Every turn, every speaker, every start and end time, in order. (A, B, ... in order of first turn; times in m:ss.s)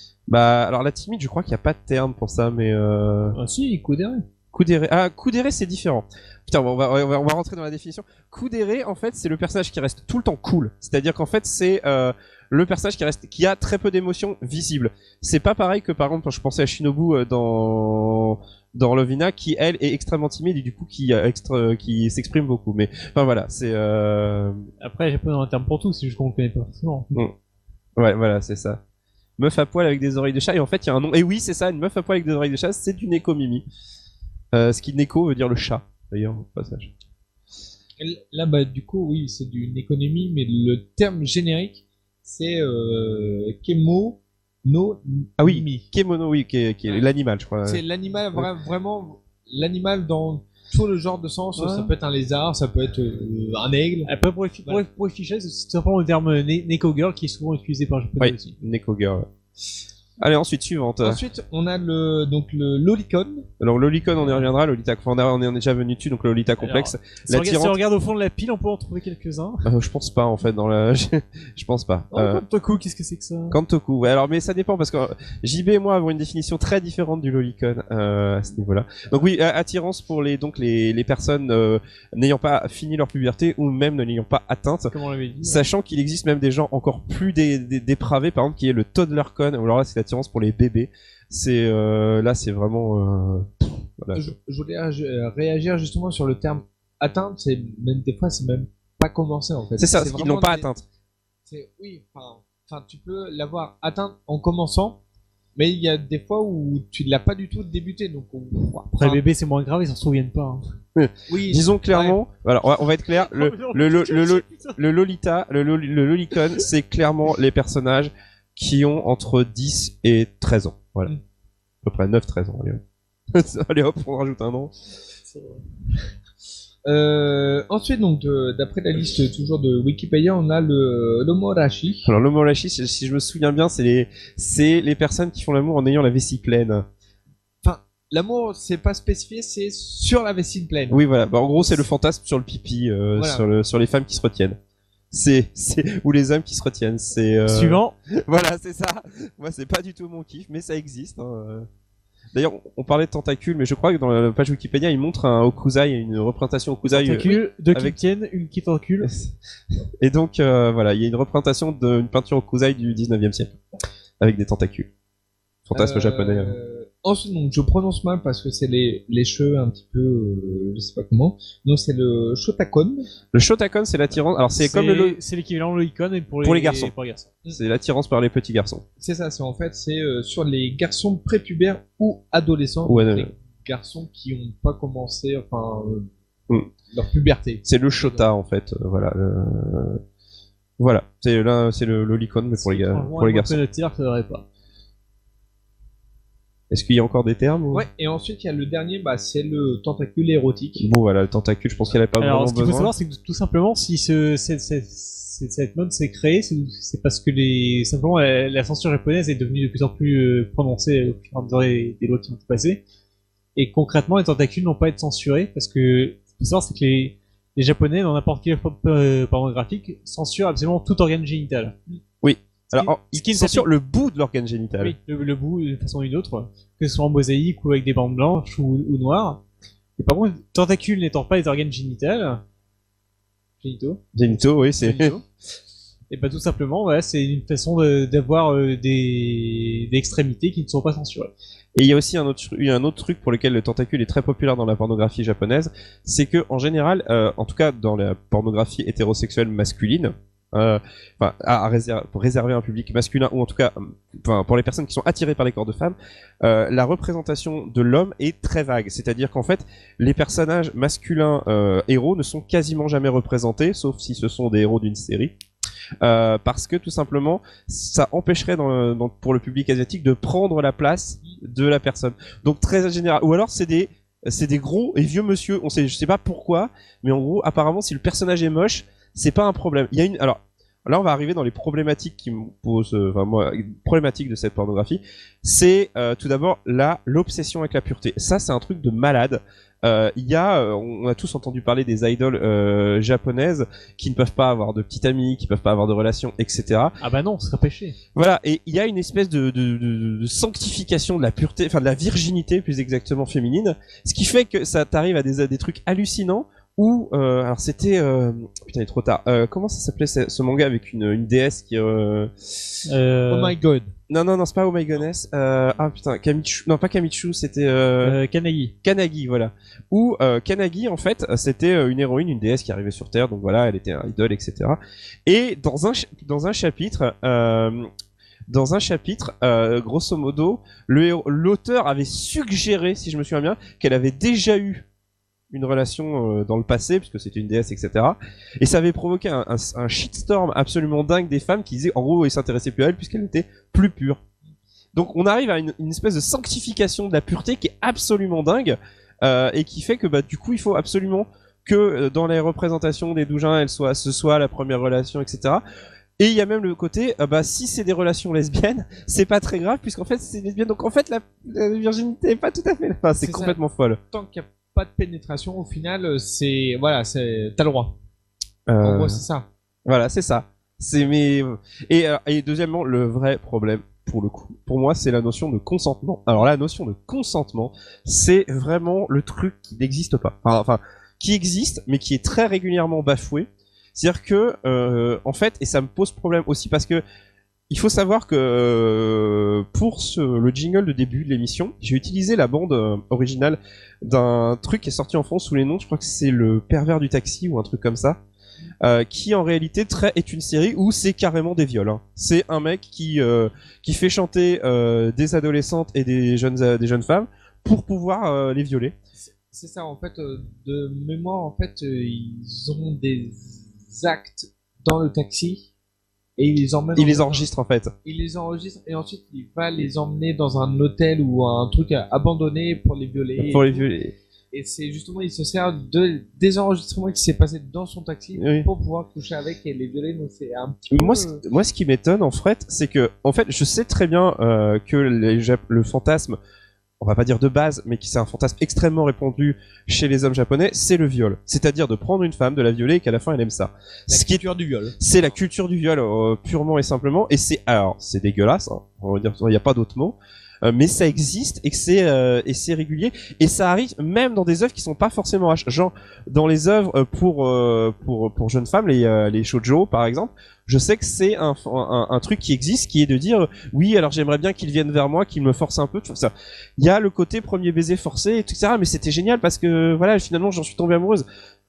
0:00.3-0:03.4 A
0:03.3-0:04.2 B
0:04.5-0:24.7 A
0:24.8-0:27.1 B
0:28.0-0:28.8 A
0:29.4-0:33.6 A
0:34.5-0:36.9 A
0:38.0-0:45.9 C
0:45.4-0:47.8 A
0:47.6-0:54.1 C
0:51.6-0:51.9 B
0:54.0-0:58.6 B
0:58.2-0:59.3 A
1:00.2-1:01.2 A
1:01.0-1:03.5 C
1:03.6-1:07.8 A
1:06.6-1:09.7 B
1:09.6-1:12.4 A
1:12.1-1:13.6 B
1:13.5-1:34.3 A
1:24.9-1:25.6 B
1:34.1-1:40.7 C
1:39.8-1:40.8 A
1:41.4-1:45.0 C
1:45.6-1:49.2 C
1:48.8-1:50.6 B
1:51.0-2:01.1 A
1:51.3-1:52.2 C
1:53.1-1:54.8 B
2:01.8-2:02.8 A
2:03.3-2:04.7 A
2:06.8-2:12.1 C
2:12.0-2:16.8 A
2:17.6-2:21.0 C
2:20.9-2:24.6 A
2:21.6-2:21.8 C
2:23.2-2:23.4 C
2:25.1-2:31.7 A
2:27.5-2:27.9 B
2:32.3-2:38.0 A
2:36.9-2:39.1 B
2:39.0-2:39.3 A
2:40.0-2:43.5 A
2:44.2-2:44.9 A
2:45.7-2:46.5 A
2:45.7-2:53.1 C
2:53.3-2:55.2 A
2:54.6-2:57.4 B
2:56.4-2:56.9 A
2:57.5-2:58.8 A
2:59.0-3:06.1 C
3:02.9-3:03.3 A
3:06.9-3:08.3 C
3:07.6-3:10.0 A
3:10.8-3:13.6 A
3:12.6-3:14.4 B
3:16.7-3:17.8 A
3:17.7-3:20.8 C
3:20.8-3:22.9 A
3:22.2-3:32.8 B
3:33.6-3:41.8 B
3:42.2-3:45.0 A
3:42.7-3:43.7 B
3:44.8-3:49.4 B
3:50.0-3:52.4 B
3:53.6-3:55.2 B
3:54.1-3:55.2 A
3:56.1-4:01.3 B
4:01.8-4:25.3 A
4:26.0-4:57.0 A
4:57.0-4:58.0 B
4:58.1-5:12.8 A
5:12.9-5:13.6 B
5:13.3-5:13.9 C
5:14.1-5:18.2 A
5:18.0-5:18.7 B
5:18.8-5:27.9 A
5:28.5-5:34.8 A
5:35.5-5:44.2 A
5:44.9-5:55.6 A
5:56.2-6:04.0 A
6:03.2-6:03.6 C
6:04.1-6:08.0 C
6:08.7-6:09.2 A
6:08.8-6:09.5 C
6:09.8-6:27.0 A
6:27.7-6:38.2 A
6:38.8-6:48.9 A
6:49.1-6:55.7 C
6:56.4-6:57.4 C
6:57.0-6:57.9 A
6:58.0-7:03.9 C
7:03.4-7:04.1 A
7:04.5-7:11.4 C
7:08.4-7:08.7 A
7:10.9-7:16.4 A
7:17.0-7:24.4 A
7:24.1-7:25.0 C
7:25.0-7:51.2 A